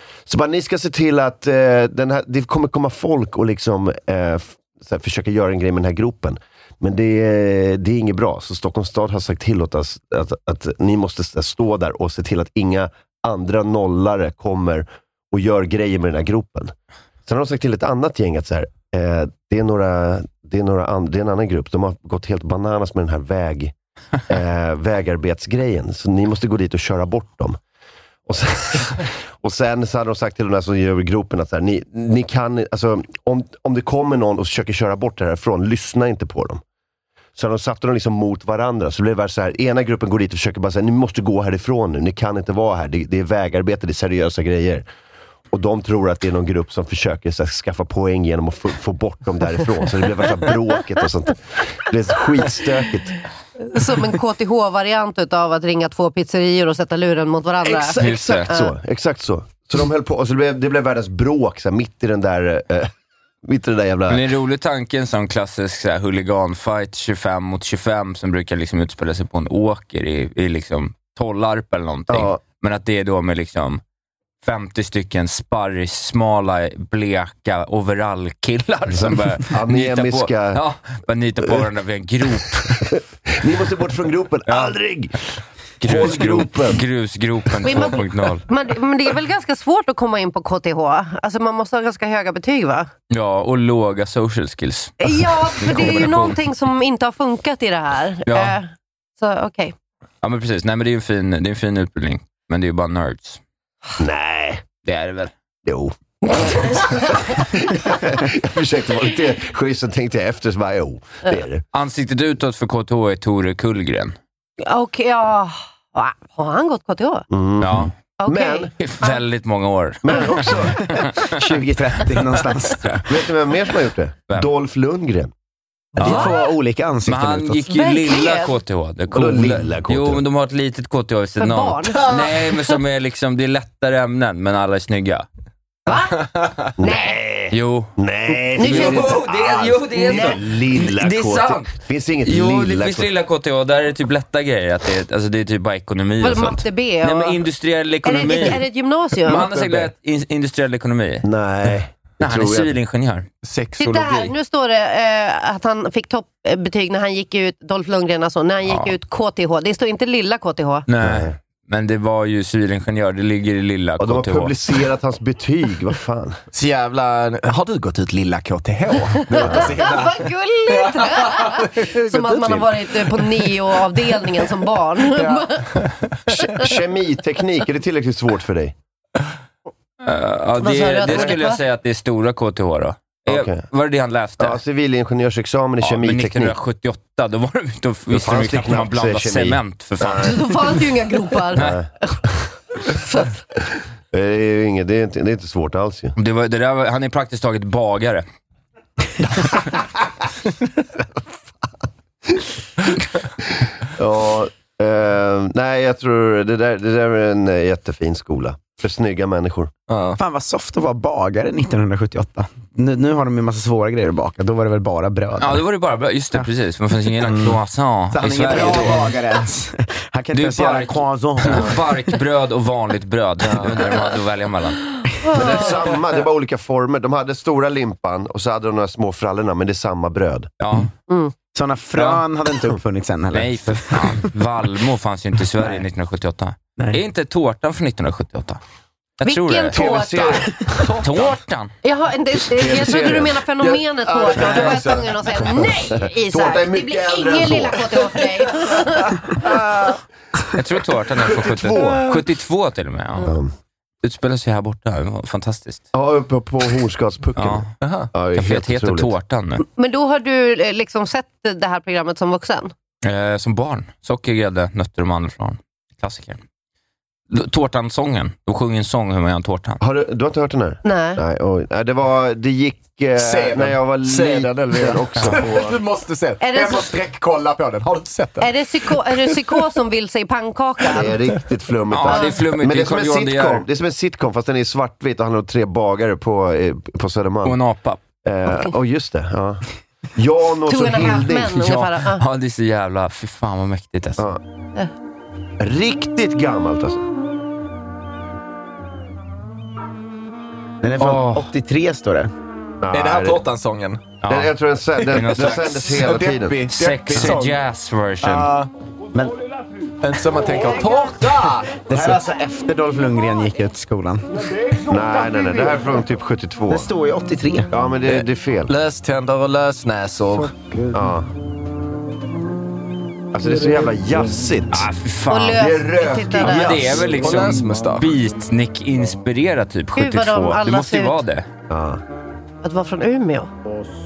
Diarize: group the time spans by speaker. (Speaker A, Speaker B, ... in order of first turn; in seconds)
Speaker A: 0.3-16.7, 17.2-23.7, 24.3-27.6, 28.3-36.6, 37.4-44.8, 45.5-53.2, 57.6-62.9, 63.4-64.2, 72.1-72.4, 78.9-80.6, 82.3-86.8, 104.0-104.6, 105.6-111.6, 117.3-118.7, 120.0-121.0, 123.1-125.3, 129.1-130.2, 136.8-143.1, 149.3-149.9, 151.2-152.7, 161.0-161.3, 164.0-166.4, 169.4-169.7, 176.3-178.7, 181.1-181.3, 183.3-183.6, 184.4-186.5, 188.1-190.4, 191.5-192.5, 194.1-196.1, 202.2-202.5, 203.4-209.7, 225.3-230.5, 239.7-240.9, 242.5-248.1, 251.2-252.2, 253.2-253.5, 255.9-259.1, 269.8-275.8, 280.9-287.6, 288.2-289.6, 290.1-291.7, 295.6-297.0, 302.8-303.4, 304.3-306.6, 314.8-316.9, 317.7-318.7, 320.9-321.3, 323.3-324.9, 325.6-327.1, 331.7-332.0
Speaker B: 53.6-58.7, 87.6-92.9, 95.0-99.7, 106.4-106.6, 114.6-117.2, 118.2-119.2, 126.0-126.4, 127.7-128.5, 131.4-132.2, 135.8-137.2, 138.6-139.2, 140.0-140.4, 146.2-147.4, 148.0-149.4, 153.8-160.8, 169.3-175.7, 180.6-181.6, 190.2-191.6, 192.9-193.3, 225.2-225.7, 239.2-240.5, 241.8-249.2, 259.8-262.7, 270.8-271.2, 276.4-276.9, 278.4-281.1, 282.1-282.3, 290.7-292.2, 325.3-326.9, 329.9-331.1, 332.6-333.5
Speaker C: 58.0-58.5, 64.1-73.8, 74.4-82.8, 84.5-84.8, 85.8-88.4, 93.1-96.4, 98.3-98.5, 100.2-103.4, 104.8-105.3, 111.7-114.1, 117.6-117.9, 118.8-121.2, 126.0-126.4, 127.0-135.2, 137.5-141.7, 142.2-148.6, 149.2-151.2, 152.2-153.3, 158.7-158.9, 160.9-164.5, 180.0-184.6, 185.8-190.5, 196.2-198.2, 215.4-219.1, 220.3-224.8, 230.6-230.9, 231.9-232.2, 233.3-238.6, 239.2-239.8, 241.0-241.7, 250.5-253.3, 254.0-255.9, 257.4-257.7, 258.3-259.6, 263.0-266.4, 267.3-269.8, 275.2-275.4, 281.9-283.6, 287.4-288.0, 291.5-294.2, 301.0-301.5, 304.2-304.5, 305.1-306.1, 306.7-308.5, 324.7-331.5
Speaker D: 121.2-123.0, 126.0-127.6, 210.2-215.6, 217.2-217.6, 218.1-221.8, 231.5-234.2, 300.8-302.3, 311.9-314.3, 316.7-317.7
Speaker E: 136.2-136.7, 153.4-154.3, 166.5-172.6, 175.1-176.1, 209.9-210.2, 240.8-241.2, 257.8-258.1, 273.1-278.5, 302.9-304.1, 305.1-307.6, 308.2-308.7, 310.0-312.2, 318.1-320.5, 327.1-328.1